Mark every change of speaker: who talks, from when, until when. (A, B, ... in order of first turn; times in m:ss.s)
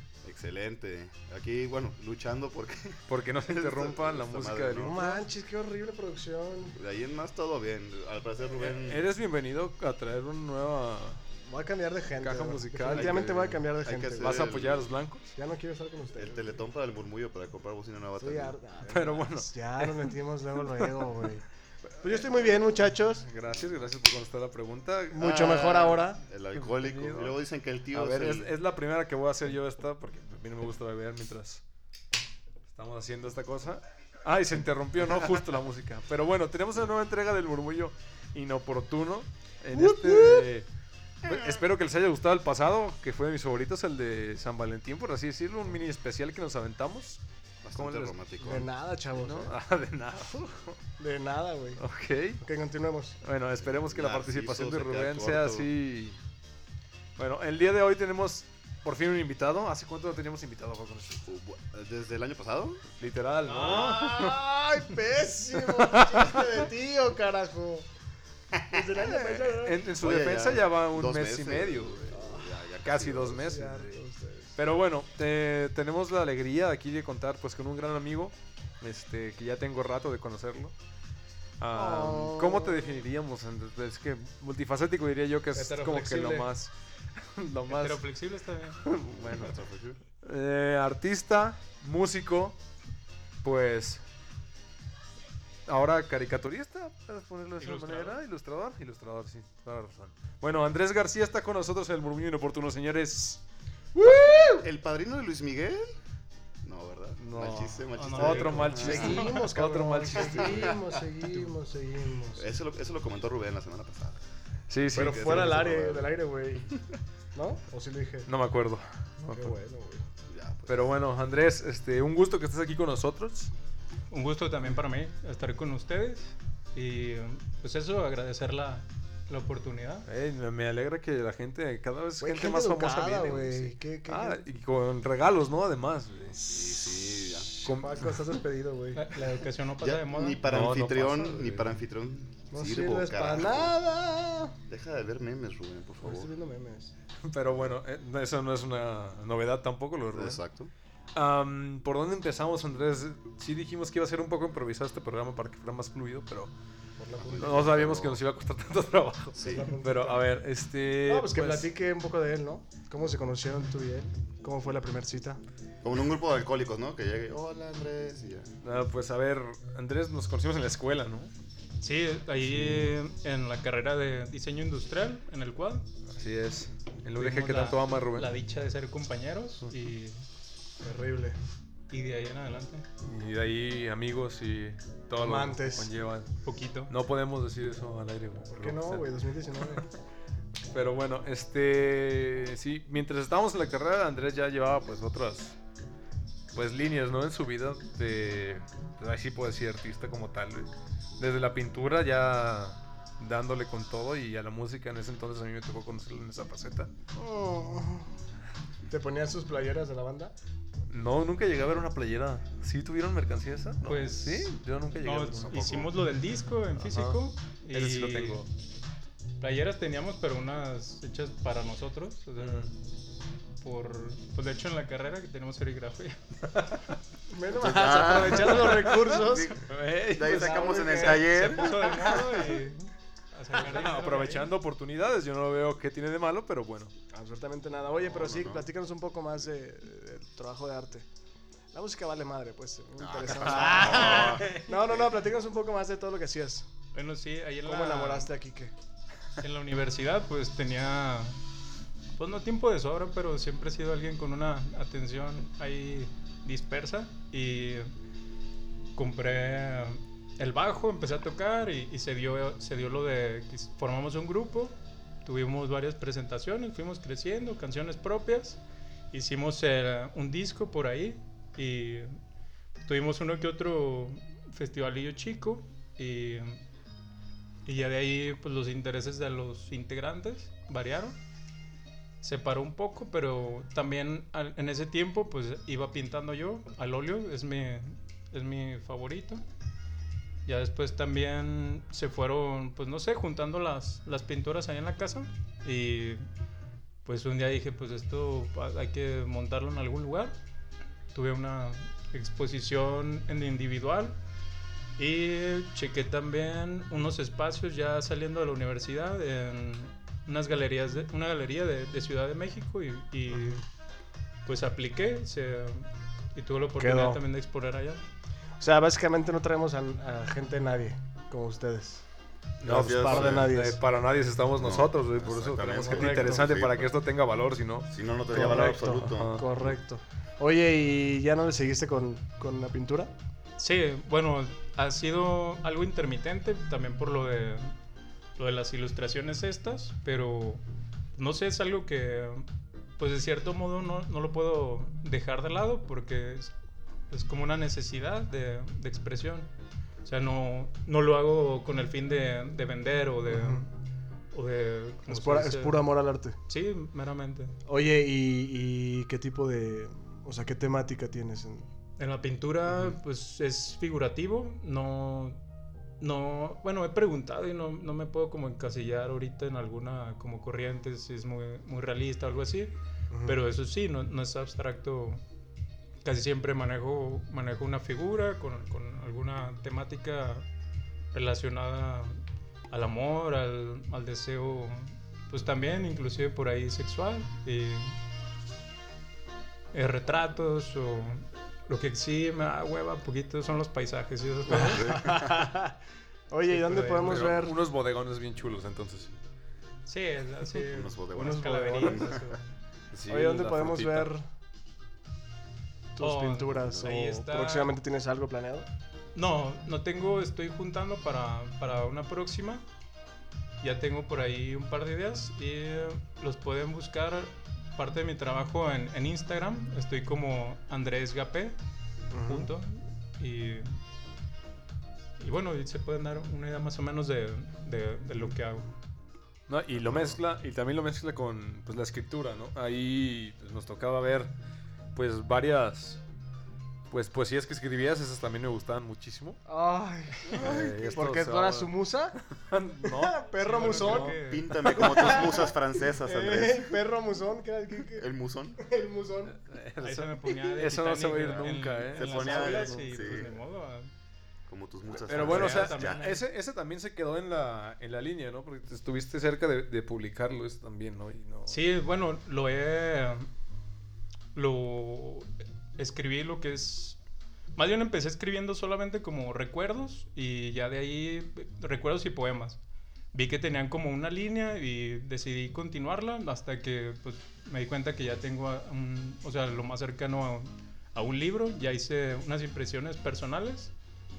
0:00.2-0:05.0 A
0:03.1-0:05.2 B
0:04.8-0:06.8 C
0:06.7-0:09.0 A
0:08.5-0:11.2 B
0:11.4-0:14.4 C
0:12.2-0:15.3 B
0:12.9-0:14.9 A
0:15.4-0:16.6 C
0:16.2-0:18.5 A
0:18.2-0:21.4 C
0:18.8-0:20.1 B
0:20.7-0:21.1 B
0:21.9-0:22.6 B
0:22.0-0:23.3 C
0:23.2-0:27.4 B
0:25.1-0:26.2 C
0:25.2-0:28.5 A
0:27.9-0:31.6 B
0:32.7-0:40.7 B
0:39.7-0:40.5 C
0:41.2-0:47.2 B
0:41.2-0:41.6 A
0:47.6-0:48.7 A
0:47.7-0:48.2 B
0:48.4-0:49.5 C
0:49.1-0:50.8 B
0:51.0-0:51.8 C
0:51.8-0:52.4 B
0:52.4-0:53.2 C
0:53.2-0:56.2 B
0:53.6-0:55.7 A
0:57.2-1:01.2 B
1:01.2-1:02.8 A
1:03.0-1:04.4 B
1:03.4-1:04.1 D
1:03.5-1:07.9 C
1:05.6-1:06.5 B
1:08.7-1:09.8 C
1:09.0-1:13.9 B
1:10.0-1:13.4 A
1:12.1-1:12.6 C
1:13.3-1:14.6 C
1:14.6-1:20.7 B
1:21.6-1:28.0 B
1:21.7-1:23.0 C
1:25.5-1:26.5 D
1:27.7-1:28.8 D
1:28.8-1:29.6 B
1:29.1-1:30.0 A
1:30.2-1:32.6 B
1:33.4-1:34.0 B
1:35.6-1:43.4 B
1:37.6-1:38.2 D
1:43.9-1:44.7 C
1:44.0-1:45.9 A
1:46.6-1:49.3 A
1:47.2-1:51.4 B
1:48.0-1:49.4 D
1:48.5-1:52.5 C
1:50.2-1:50.8 A
1:52.3-1:54.2 A
1:54.7-1:55.7 B
1:54.9-1:56.1 A
1:54.9-1:56.7 C
1:57.3-1:58.3 C
1:58.3-1:59.5 B
1:59.2-2:00.0 C
2:00.3-2:00.9 A
2:00.7-2:03.5 B
2:04.1-2:10.1 D
2:10.1-2:16.7 B
2:12.2-2:14.4 C
2:16.4-2:17.6 A
2:17.6-2:18.1 B
2:17.6-2:19.2 C
2:18.9-2:20.5 D
2:19.8-2:23.7 A
2:20.4-2:21.7 B
2:22.5-2:24.5 C
2:24.7-2:26.3 A
2:26.0-2:26.9 C
2:27.2-2:30.4 B
2:30.1-2:30.7 A
2:31.1-2:36.5 B
2:37.0-2:37.9 C
2:37.2-2:38.2 A
2:37.4-2:41.7 B
2:39.3-2:40.3 C
2:39.4-2:39.7 A
2:41.0-2:45.4 C
2:45.8-2:48.5 A
2:48.6-2:51.3 B
2:51.8-2:55.9 D
2:56.1-2:58.3 B
2:57.2-3:00.2 D
3:00.8-3:01.4 C
3:01.9-3:02.9 D
3:03.0-3:06.3 B
3:05.2-3:05.9 C
3:06.4-3:06.9 D
3:06.9-3:09.1 B
3:08.5-3:09.9 C
3:10.7-3:15.5 B
3:16.5-3:26.9 B
3:27.2-3:28.1 C
3:28.9-3:30.3 C
3:30.9-3:35.9 B
3:33.8-3:38.4 D
3:36.8-3:37.2 B
3:37.7-3:38.5 B
3:39.4-3:42.7 D
3:42.4-3:42.7 B
3:43.6-3:46.6 D
3:46.6-3:46.9 B
3:47.3-3:49.6 C
3:47.5-3:52.2 A
3:48.5-3:51.7 B
3:50.2-3:51.5 C
3:51.2-3:54.5 D
3:53.6-3:56.9 B
3:57.1-4:01.0 C
3:58.1-3:58.6 A
4:01.7-4:06.7 C
4:03.0-4:04.6 A
4:03.2-4:04.7 B
4:06.9-4:08.3 D
4:07.6-4:08.7 C
4:09.4-4:11.4 D
4:12.2-4:17.9 D
4:18.9-4:28.6 D
4:29.1-4:32.2 D
4:32.8-4:36.6 D
4:37.6-4:41.2 D
4:42.2-4:49.4 D
4:50.4-4:56.3 D
4:57.0-5:00.3 D
5:01.1-5:04.2 D
5:05.0-5:13.6 D
5:14.4-5:18.0 D
5:16.8-5:17.2 C
5:18.6-5:22.0 C
5:22.6-5:29.5 B
5:22.6-5:23.8 C
5:22.6-5:23.5 A
5:24.6-5:26.9 A
5:25.8-5:26.5 C
5:27.9-5:29.7 A
5:28.3-5:33.1 C
5:33.6-5:37.7 D
5:38.4-5:40.6 D
5:41.1-5:42.5 D
5:43.0-5:46.5 D
5:47.1-5:49.5 D
5:50.0-5:53.6 D
5:53.3-5:53.7 C
5:54.3-5:55.8 D
5:55.1-5:56.4 C
5:56.5-5:57.6 D
5:57.6-6:01.7 C
6:02.0-6:05.4 D
6:06.0-6:12.7 D
6:13.1-6:13.4 C
6:13.2-6:15.2 D
6:16.0-6:20.4 D
6:21.1-6:22.2 D
6:22.7-6:28.0 D
6:29.7-6:35.2 D
6:34.5-6:35.7 C
6:34.5-6:35.4 A
6:36.3-6:37.6 C
6:36.5-6:37.2 D
6:36.7-6:39.1 B
6:39.8-6:42.4 D
6:40.6-6:42.1 A
6:41.1-6:42.4 C
6:42.9-6:44.1 B
6:43.1-6:44.2 C
6:46.0-6:48.7 C
6:46.0-6:47.7 D
6:46.6-6:46.9 A
6:49.1-6:52.6 D
6:53.6-7:01.5 D
7:02.1-7:02.5 C
7:02.2-7:03.8 D
7:05.2-7:08.7 D
7:09.5-7:14.3 B
7:09.8-7:10.2 A
7:14.9-7:16.0 B
7:16.9-7:19.4 B
7:19.4-7:22.2 C
7:20.3-7:25.2 B
7:22.8-7:24.2 C
7:23.4-7:24.6 D
7:24.2-7:26.7 A
7:24.7-7:29.4 C
7:27.9-7:28.6 A
7:29.4-7:32.2 B
7:29.8-7:33.9 D
7:31.9-7:33.4 A
7:32.2-7:32.8 C
7:34.5-7:36.0 A
7:34.9-7:41.6 B
7:35.1-7:36.2 D
7:41.5-7:43.3 D
7:44.3-7:47.0 D
7:47.5-7:52.6 D
7:53.1-8:03.7 D